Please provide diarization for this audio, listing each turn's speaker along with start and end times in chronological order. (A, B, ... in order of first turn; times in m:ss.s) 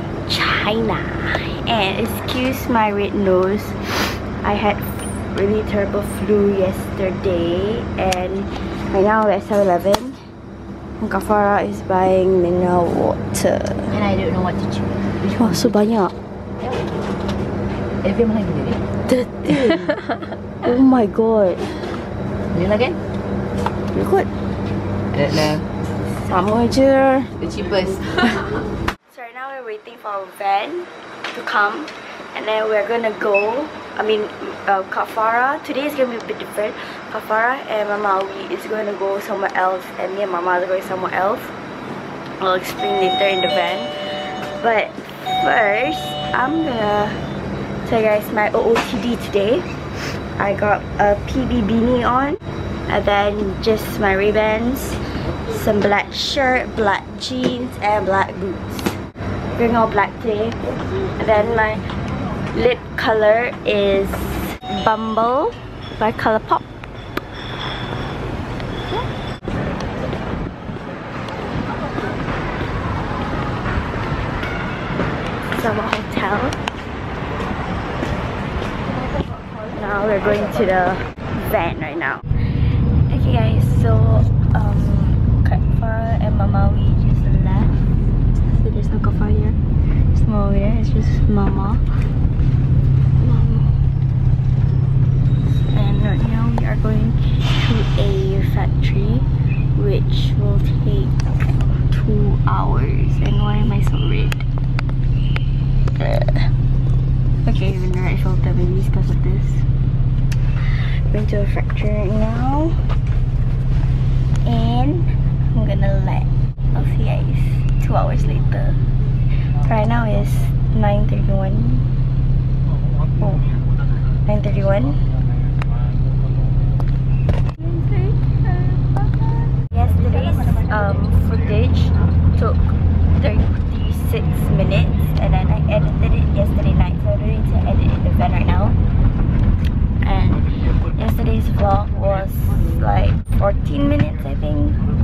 0:00.2-0:10.2 A
0:11.0-0:13.9 A
0:13.9-0:15.7 B
0:15.3-0:16.1 A
0:16.6-0:17.0 B
0:18.0-0:18.8 B
0:19.0-0:21.8 A
0:22.5-0:23.0 B
0:23.9-0:24.3 A
0:25.1-0:25.6 B
0:26.0-0:27.3 A
0:27.4-0:28.2 B
0:29.1-0:41.6 A
0:42.4-1:01.8 A
1:02.5-1:06.7 A
1:15.5-1:16.6 A
1:19.7-1:31.8 A
1:33.2-1:33.9 A
1:35.5-1:44.5 A
1:45.9-1:46.5 A
1:47.4-1:49.7 A
1:50.6-1:53.0 A
1:54.4-2:01.9 A
2:03.1-2:03.6 A
2:04.2-2:05.1 A
2:07.6-2:18.8 A
2:20.0-2:24.8 A